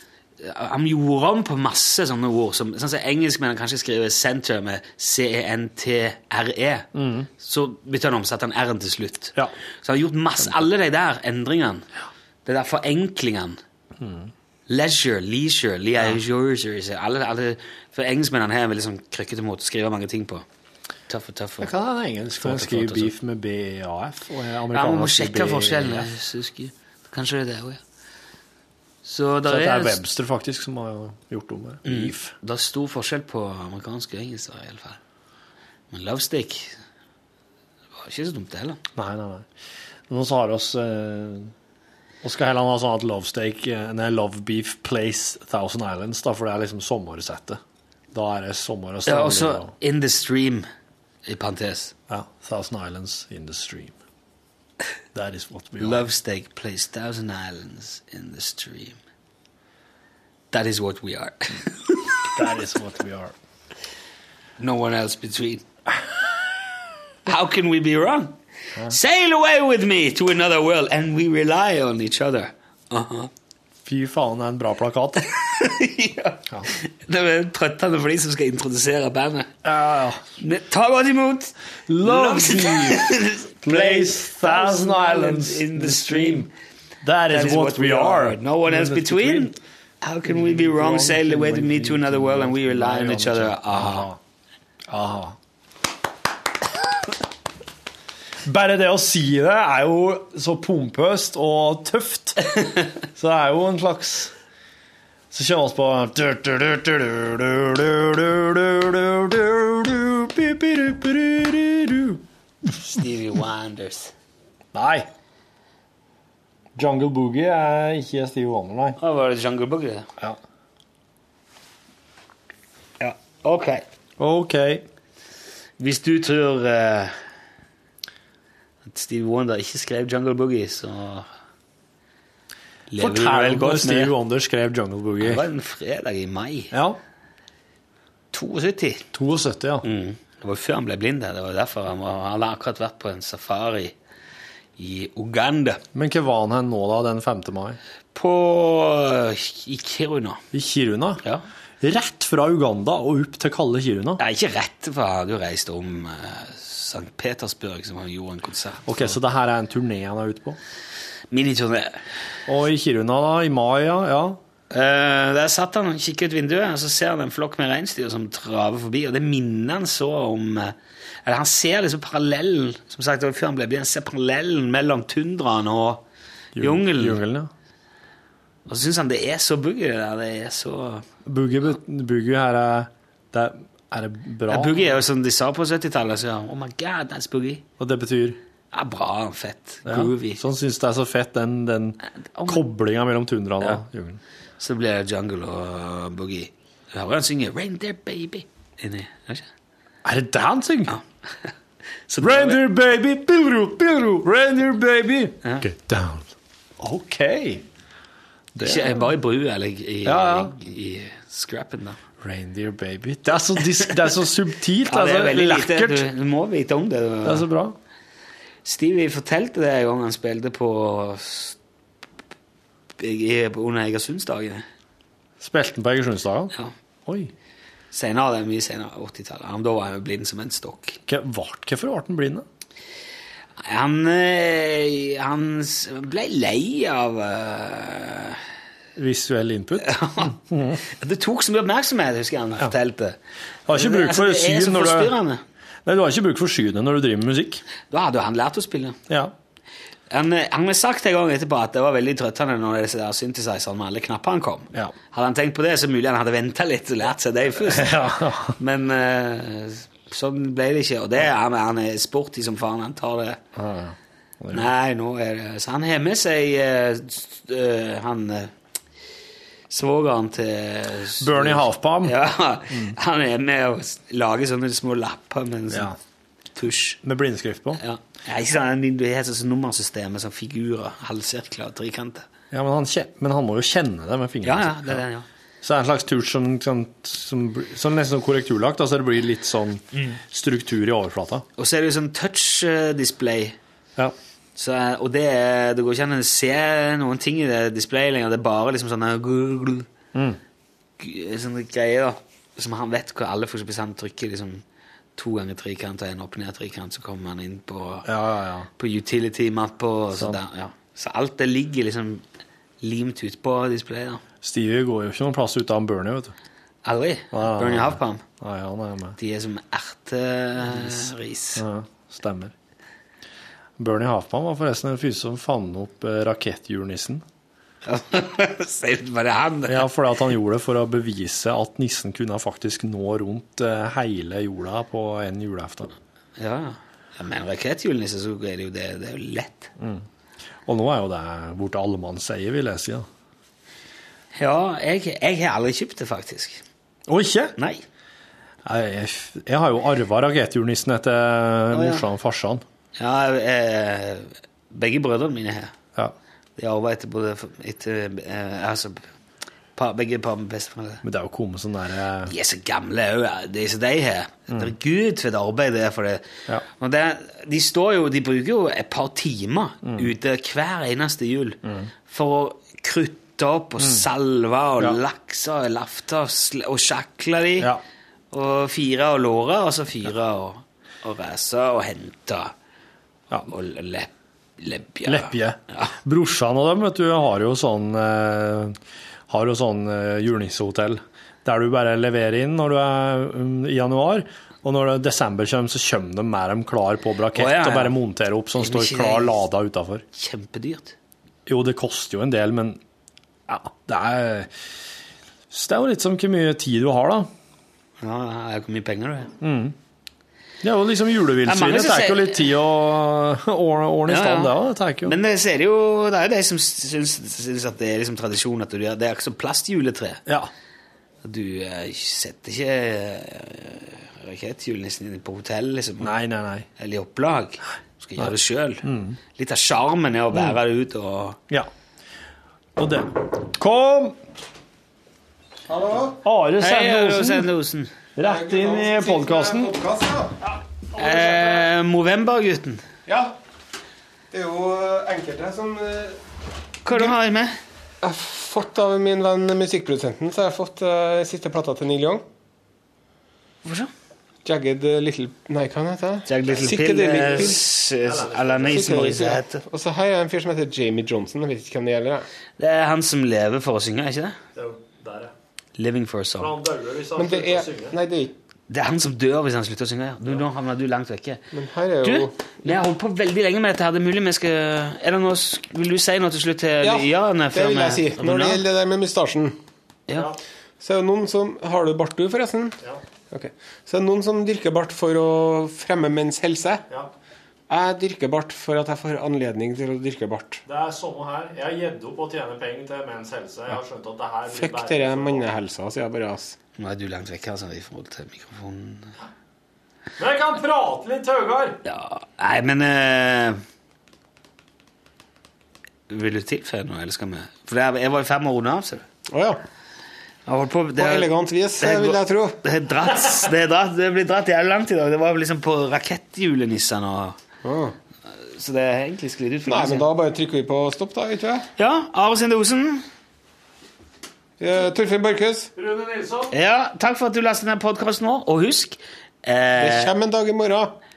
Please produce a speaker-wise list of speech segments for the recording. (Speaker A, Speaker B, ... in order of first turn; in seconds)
Speaker A: 0.4-11.8, 12.4-13.6, 14.7-20.4, 21.1-21.7, 22.4-23.1, 24.7-27.8, 29.0-30.0, 31.8-35.0, 35.9-36.8, 38.0-38.8, 49.0-50.7, 51.2-51.9, 55.8-59.0, 60.5-62.5, 64.6-65.6, 67.2-68.3, 68.9-73.3, 75.2-79.5, 80.4-86.5, 87.3-94.1, 112.8-114.1, 119.0-120.1, 123.0-123.8, 125.8-127.2, 128.8-131.3, 132.9-134.1, 135.2-136.7, 138.3-139.0, 139.8-143.9, 144.8-145.8, 148.1-150.4, 154.2-159.1, 161.3-162.0, 164.7-176.0, 176.6-177.2, 178.7-181.0, 184.5-187.6, 188.7-190.4, 192.3-192.6, 194.6-199.5, 200.9-201.5, 202.1-202.7, 208.6-212.0, 213.5-214.1, 214.8-217.5, 218.6-221.6, 223.0-224.6, 227.9-231.0, 233.6-238.4, 239.8-243.2, 243.7-245.4, 247.9-249.0, 250.1-263.4, 264.5-268.5, 269.7-275.9, 276.5-277.0, 277.8-282.2, 284.4-285.2, 291.6-293.6, 294.6-299.9, 301.0-304.6, 305.1-308.1, 308.8-312.2, 312.8-314.2, 316.8-318.2, 319.2-321.6, 327.8-329.9, 336.4-339.7, 344.3-346.6, 347.6-347.8, 351.7-352.0, 353.0-355.7, 356.6-359.1, 359.7-361.0, 362.3-377.7, 378.3-382.5, 383.5-385.9, 397.3-398.0, 398.6-399.4, 400.1-400.9, 408.0-409.3, 411.4-412.4, 414.1-420.2, 421.2-426.1, 426.8-428.8, 429.4-431.4, 436.6-437.9, 440.9-442.8, 446.8-447.6, 453.6-453.9, 456.3-459.6, 462.6-464.4, 465.8-466.5, 468.7-471.4, 472.0-478.6, 496.8-499.1, 501.8-503.6, 506.1-509.0, 510.4-517.4, 518.3-520.1, 521.8-523.0, 526.5-530.1
Speaker B: 6.9-7.3, 14.0-14.3, 21.6-26.1, 29.4-32.3, 39.0-39.5, 40.1-41.5, 42.2-47.6, 48.1-49.7, 52.1-53.9, 55.1-56.0, 62.3-63.3, 73.8-75.2, 79.6-80.2, 81.9-86.5, 87.0-89.6, 90.2-94.2, 94.9-95.4, 98.4-104.3, 105.3-112.2, 114.7-115.1, 116.8-119.0, 124.2-124.8, 133.0-135.4, 136.7-137.0, 139.1-139.8, 145.9-147.8, 150.5-151.2, 151.8-154.2, 158.8-160.6, 162.5-164.4, 176.6-177.5, 181.2-184.8, 187.8-188.4, 189.8-194.2, 200.0-200.9, 202.2-207.6, 208.5-209.1, 210.0-210.5, 212.2-216.1, 217.2-217.8, 225.4-226.5, 227.1-227.3, 231.1-232.4, 238.9-240.8, 243.7-245.2, 245.8-247.6, 257.6-258.6, 263.5-264.7, 271.2-272.2, 275.7-275.9, 277.0-277.8, 282.5-285.0, 285.6-291.4, 300.1-300.4, 308.0-308.7, 314.4-316.3, 317.3-319.2, 320.7-322.5, 323.8-327.2, 329.7-335.9, 339.8-340.0, 340.6-343.1, 347.1-347.6, 348.6-352.6, 361.0-362.3, 369.8-370.1, 385.0-388.8, 389.3-400.0, 401.4-402.8, 403.5-404.5, 405.5-407.3, 409.4-409.7, 410.6-415.1, 426.0-426.7, 428.2-429.2, 432.8-434.2, 436.2-437.5, 438.1-439.7, 441.1-441.5, 456.5-459.2, 464.5-465.3, 466.4-467.9, 490.6-495.4, 500.2-501.8, 525.8-526.5
Speaker C: 435.7-436.2, 438.2-440.4, 443.1-443.3, 444.3-446.2, 448.0-452.2, 454.4-457.6, 458.7-462.2, 467.1-468.3, 471.5-472.5, 476.8-479.6, 480.8-482.8, 483.3-486.9, 487.7-490.6, 494.5-496.6, 509.3-509.6, 511.0-512.6, 517.6-517.9, 519.7-521.6, 524.6-525.7, 529.8-530.9